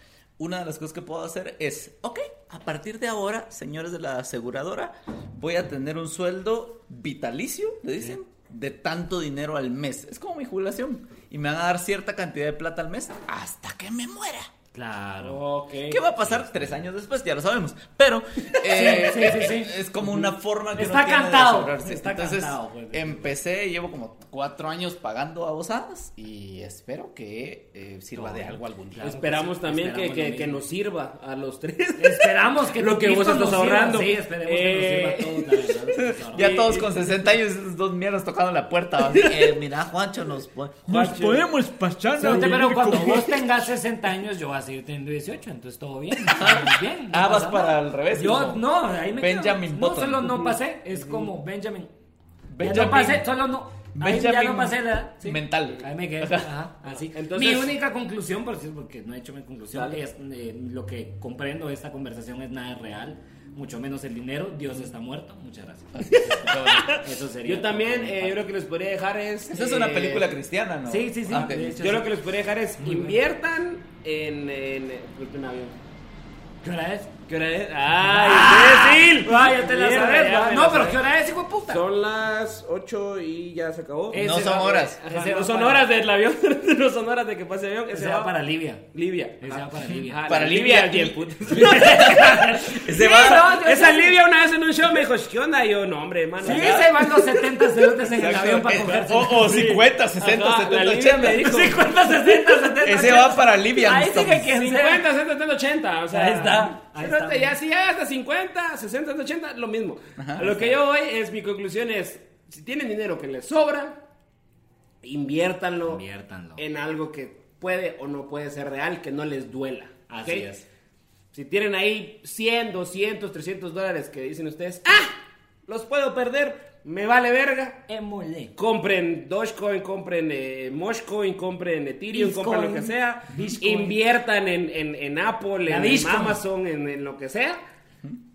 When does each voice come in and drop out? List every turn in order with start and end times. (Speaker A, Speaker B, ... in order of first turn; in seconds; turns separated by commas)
Speaker A: 0.4-14.5, Speaker B: 14.7-15.4, Speaker C: 15.2-16.0, Speaker A: 15.9-29.1, Speaker B: 18.6-19.7, Speaker B: 20.7-23.3, Speaker B: 28.2-30.6, Speaker C: 29.0-35.8, Speaker B: 32.0-36.7, Speaker A: 35.9-43.5, Speaker C: 36.3-37.0, Speaker C: 39.0-39.5, Speaker C: 40.9-41.5, Speaker B: 42.1-51.9, Speaker A: 46.2-50.5, Speaker C: 50.9-51.3, Speaker A: 52.5-53.3, Speaker B: 52.6-68.4, Speaker A: 53.9-56.5, Speaker C: 56.9-57.8, Speaker C: 59.7-60.0, Speaker A: 65.9-67.1, Speaker C: 67.4-70.3, Speaker A: 69.5-71.8, Speaker B: 70.9-72.0, Speaker C: 71.8-75.7, Speaker B: 72.8-73.1, Speaker B: 76.6-77.1, Speaker C: 77.3-81.0, Speaker B: 78.0-81.8, Speaker C: 81.7-97.3, Speaker B: 84.1-85.9, Speaker A: 84.1-85.0, Speaker B: 87.9-88.8, Speaker B: 89.4-90.2, Speaker A: 90.3-93.5, Speaker B: 91.5-94.2, Speaker B: 96.4-99.5, Speaker A: 96.4-96.9, Speaker A: 98.1-101.5, Speaker C: 99.2-102.0, Speaker B: 101.4-105.0, Speaker A: 102.8-104.5, Speaker C: 104.5-114.0, Speaker B: 106.1-107.5, Speaker A: 110.2-110.6, Speaker C: 115.0-116.0, Speaker B: 115.9-116.6, Speaker C: 116.6-120.5, Speaker B: 120.1-120.7, Speaker C: 121.3-127.8, Speaker B: 127.9-128.5, Speaker C: 128.6-137.6, Speaker B: 132.1-134.0, Speaker B: 135.7-136.4